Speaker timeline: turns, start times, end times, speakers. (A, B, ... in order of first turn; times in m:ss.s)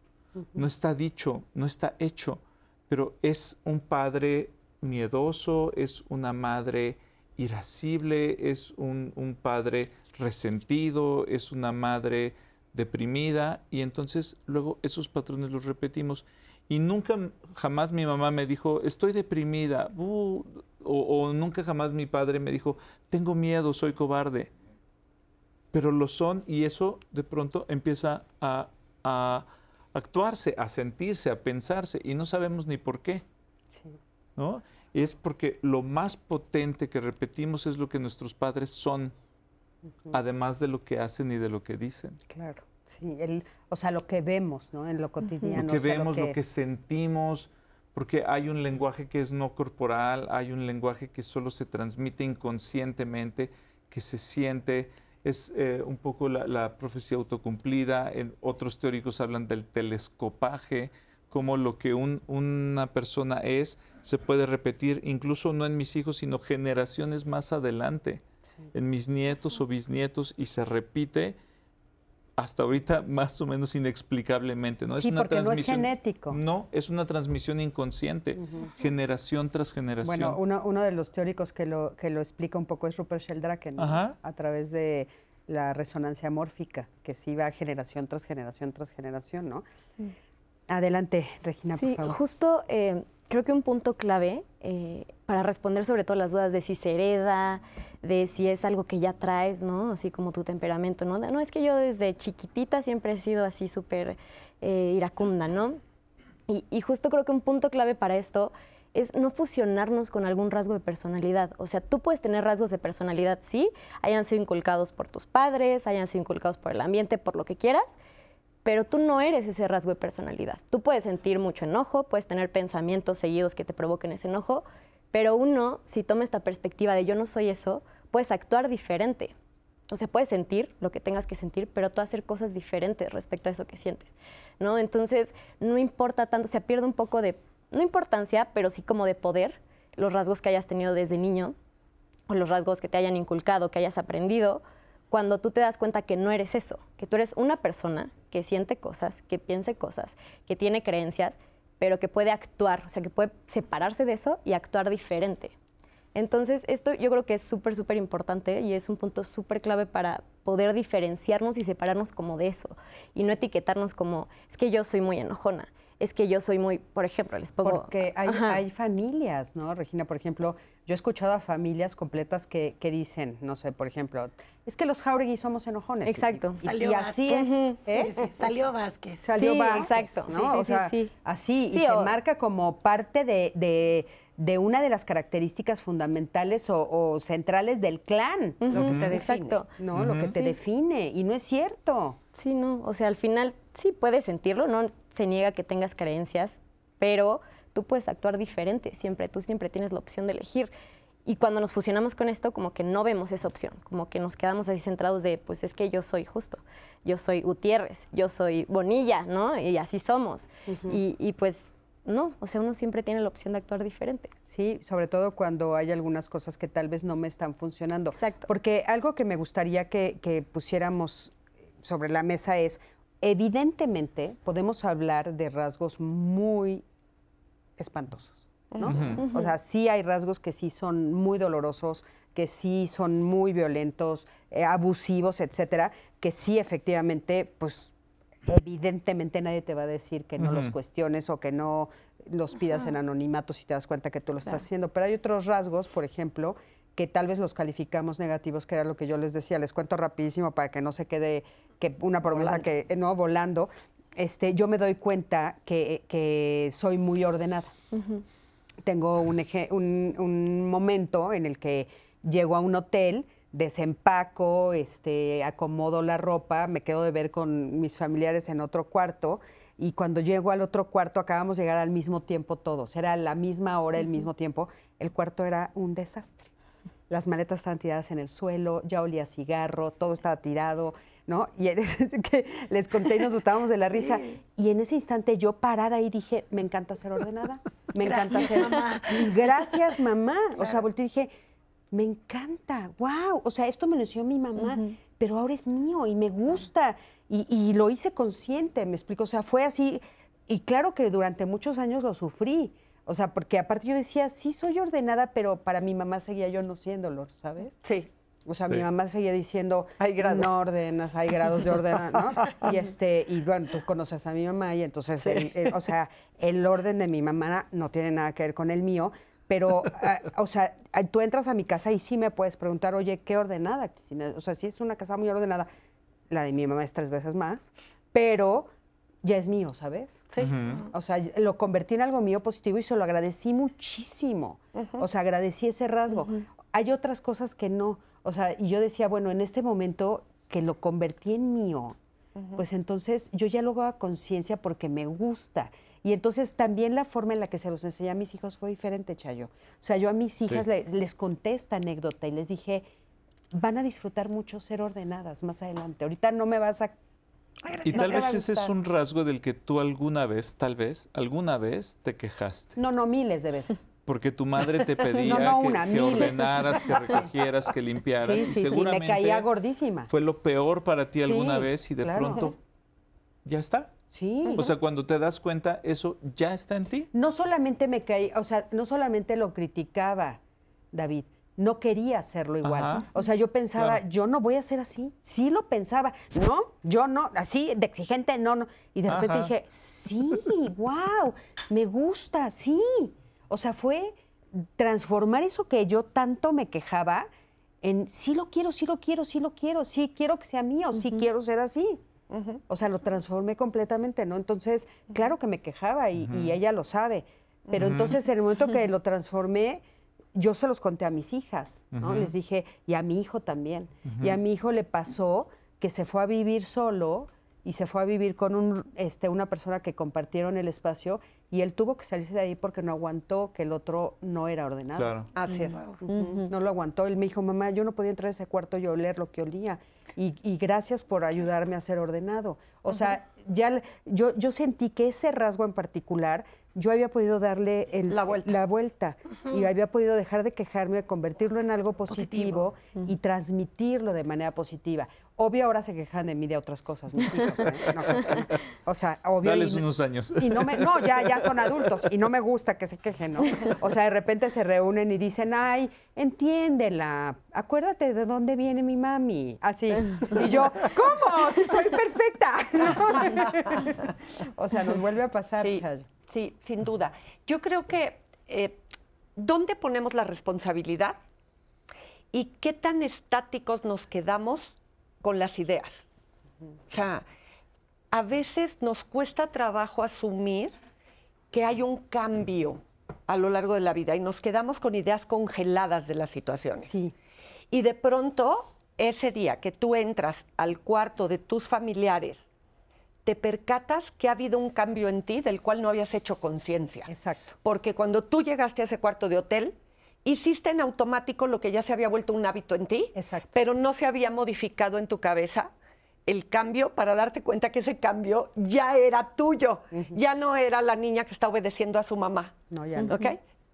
0:00.5-0:24.5 A
0:25.7-0:33.2 A
0:33.7-0:34.0 B
0:34.4-0:39.1 A
0:40.1-0:42.2 A
0:42.3-0:46.4 B
0:45.5-1:11.4 A
1:12.4-1:20.4 A
1:15.0-1:16.4 B
1:18.4-1:18.7 B
1:20.0-1:29.6 B
1:23.8-1:24.2 A
1:30.7-1:32.2 B
1:31.7-1:45.8 C
1:46.5-1:58.0 C
1:58.6-2:09.3 C
2:09.9-2:21.5 C
2:22.3-2:35.5 C
2:36.1-2:48.6 C
2:47.6-2:58.1 B
2:56.0-2:56.6 C
2:56.6-2:59.9 D
2:57.3-2:57.8 C
2:59.2-3:08.6 B
2:59.3-3:01.1 C
3:01.7-3:02.1 C
3:08.6-3:10.5 C
3:08.7-3:09.6 E
3:08.8-3:09.1 A
3:09.8-3:12.2 B
3:09.9-3:10.3 A
3:12.3-3:20.7 C
3:21.2-3:34.3 C
3:30.7-3:31.0 B
3:34.5-3:46.8 B
3:38.2-3:38.5 C
3:47.8-3:57.9 B
3:48.7-3:49.1 E
3:48.8-3:49.2 A
3:49.2-3:49.5 C
3:58.4-4:17.7 B
4:00.4-4:00.7 A
4:12.3-4:12.6 E
4:17.9-4:18.2 C
4:18.8-4:36.5 B
4:37.1-4:51.3 B
4:48.0-4:49.7 D
4:51.9-5:07.8 B
4:54.6-4:54.9 C
5:07.8-5:08.1 E
5:08.4-5:25.7 B
5:10.0-5:10.5 E
5:12.4-5:12.7 E
5:15.2-5:15.7 E
5:26.3-5:28.7 B
5:29.2-5:30.3 B
5:30.3-5:30.8 E
5:30.4-5:30.9 A
5:30.9-5:42.0 B
5:34.8-5:35.0 E
5:42.4-5:42.6 E
5:42.5-5:52.9 B
5:53.5-5:57.0 B
5:57.7-5:58.7 E
5:57.8-6:02.8 A
5:57.9-5:58.4 B
6:02.8-6:03.9 B
6:04.0-6:09.5 A
6:05.2-6:07.2 B
6:08.2-6:10.1 B
6:10.1-6:12.6 A
6:11.2-6:12.5 B
6:13.4-6:14.0 A
6:14.1-6:14.7 B
6:14.5-6:17.1 A
6:17.1-6:20.4 B
6:20.9-6:37.3 B
6:22.6-6:23.1 A
6:29.1-6:29.5 A
6:37.8-6:42.0 B
6:42.3-6:42.6 E
6:42.7-6:49.8 B
6:46.3-6:46.5 A
6:47.7-6:48.1 A
6:50.3-7:05.1 B
6:51.9-6:52.3 A
6:54.1-6:54.4 A
7:05.0-7:05.3 A
7:05.3-7:06.0 E
7:06.0-7:46.1 B
7:06.1-7:06.5 C
7:18.1-7:18.5 E
7:22.1-7:22.6 D
7:27.9-7:28.5 A
7:29.4-7:31.7 A
7:43.2-7:43.9 E
7:45.6-7:48.8 E
7:49.4-7:51.2 E
7:52.3-7:56.0 E
7:56.9-7:57.2 E
7:58.1-8:00.8 E
8:01.5-8:06.9 E
8:06.8-8:07.1 B
8:07.7-8:12.4 E
8:13.2-8:17.1 E
8:17.1-8:17.6 B
8:17.6-8:25.7 E
8:23.1-8:23.6 B
8:26.2-8:33.4 E
8:29.9-8:30.2 B
8:32.7-8:33.2 B